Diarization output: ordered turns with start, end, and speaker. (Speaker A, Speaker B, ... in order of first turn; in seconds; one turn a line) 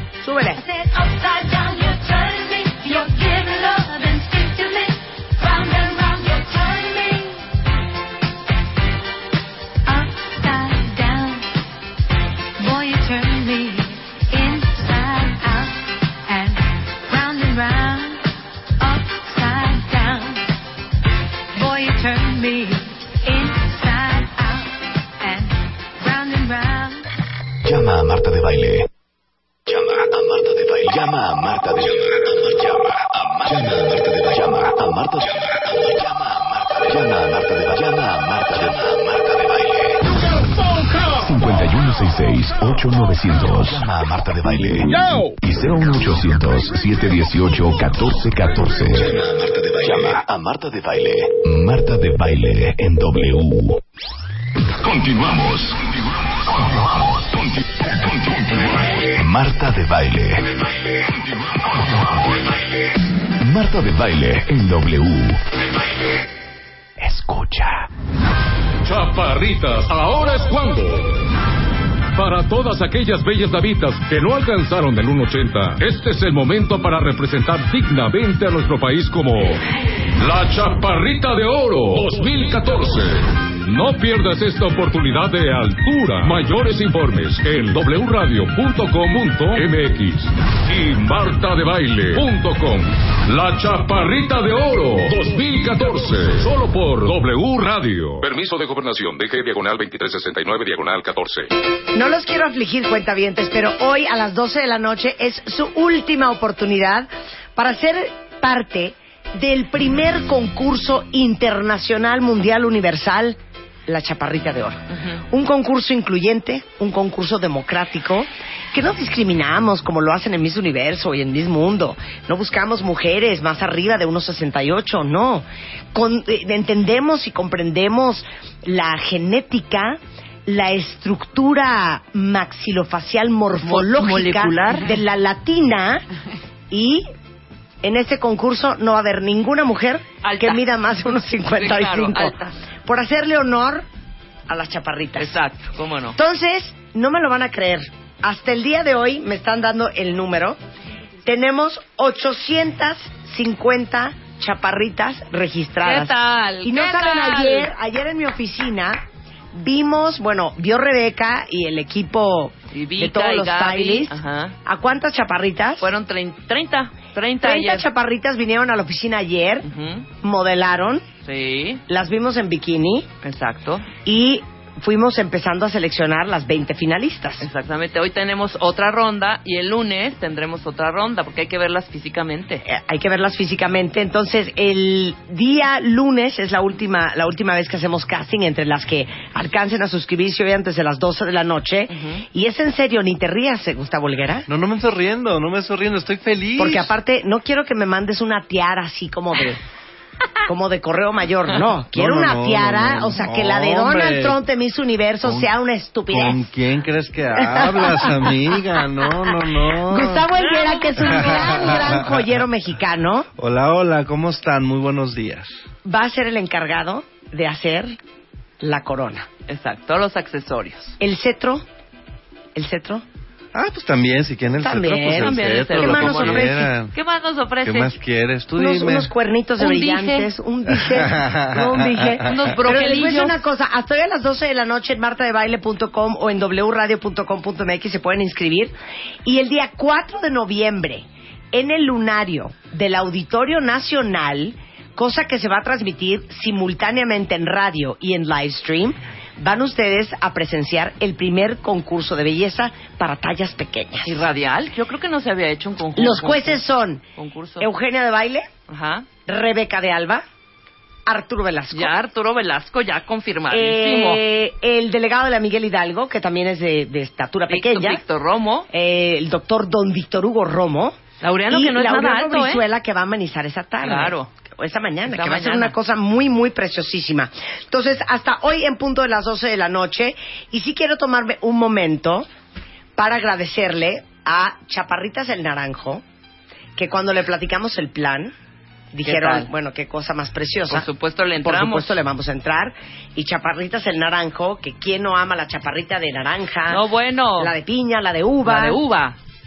Speaker A: 0.2-0.6
Speaker B: 0.6-7.5
Speaker B: 9.9-11.5
Speaker B: 12.6-18.2
Speaker B: 18.8-20.5
Speaker B: 21.6-27.0
Speaker C: 27.6-28.9
Speaker C: 29.7-40.0
Speaker C: 41.0-53.8
Speaker C: 54.8-60.5
Speaker C: 61.6-62.2
Speaker C: 63.4-65.4
Speaker C: 67.0-67.9
Speaker D: 68.8-71.2
Speaker D: 72.2-79.6
Speaker D: 80.2-101.5
Speaker A: 101.9-136.0
Speaker E: 114.9-115.2
Speaker E: 133.6-134.9
Speaker A: 136.7-137.1
Speaker A: 137.8-143.9
Speaker E: 140.2-140.6
Speaker E: 141.5-142.5
Speaker A: 144.5-145.4
Speaker E: 145.2-146.2
Speaker A: 146.2-150.6
Speaker A: 151.2-159.0
Speaker E: 155.8-157.7
Speaker A: 159.5-165.9
Speaker E: 162.7-164.6
Speaker E: 165.8-167.9
Speaker A: 167.4-169.7
Speaker E: 169.6-170.1
Speaker A: 170.2-171.1
Speaker E: 171.2-171.8
Speaker A: 171.9-173.1
Speaker E: 173.2-173.9
Speaker A: 174.1-177.5
Speaker E: 177.4-182.6
Speaker A: 182.7-194.5
Speaker E: 191.9-192.2
Speaker F: 194.5-196.9
Speaker A: 196.6-199.6
Speaker A: 200.5-206.5
Speaker F: 201.9-204.4
Speaker F: 205.2-205.5
Speaker F: 206.1-210.3
Speaker A: 207.3-208.3
Speaker A: 209.0-213.3
Speaker E: 210.3-211.9
Speaker F: 211.1-212.3
Speaker F: 213.4-215.5
Speaker A: 215.8-218.0
Speaker A: 218.6-219.3
Speaker E: 219.5-221.0
Speaker A: 221.0-221.7
Speaker A: 222.6-223.1
Speaker F: 223.5-226.9
Speaker A: 224.6-226.7
Speaker E: 225.1-227.9
Speaker F: 227.7-229.1
Speaker A: 228.6-238.7
Speaker E: 229.6-230.3
Speaker F: 231.1-232.1
Speaker E: 232.2-233.4
Speaker A: 239.2-254.2
Speaker E: 254.1-256.6
Speaker A: 255.9-257.0
Speaker E: 257.2-257.7
Speaker A: 257.6-258.5
Speaker E: 258.7-259.1
Speaker A: 259.3-260.2
Speaker A: 261.1-261.9
Speaker E: 261.7-264.2
Speaker A: 263.5-268.0
Speaker E: 267.5-268.7
Speaker A: 268.7-282.3
Speaker E: 271.2-272.6
Speaker E: 273.8-274.3
Speaker E: 275.1-275.8
Speaker A: 283.0-286.0
Speaker A: 286.8-288.3
Speaker A: 288.9-290.9
Speaker E: 289.1-289.5
Speaker E: 290.7-291.9
Speaker A: 291.4-296.8
Speaker E: 296.7-297.5
Speaker A: 297.4-298.8
Speaker E: 298.4-299.2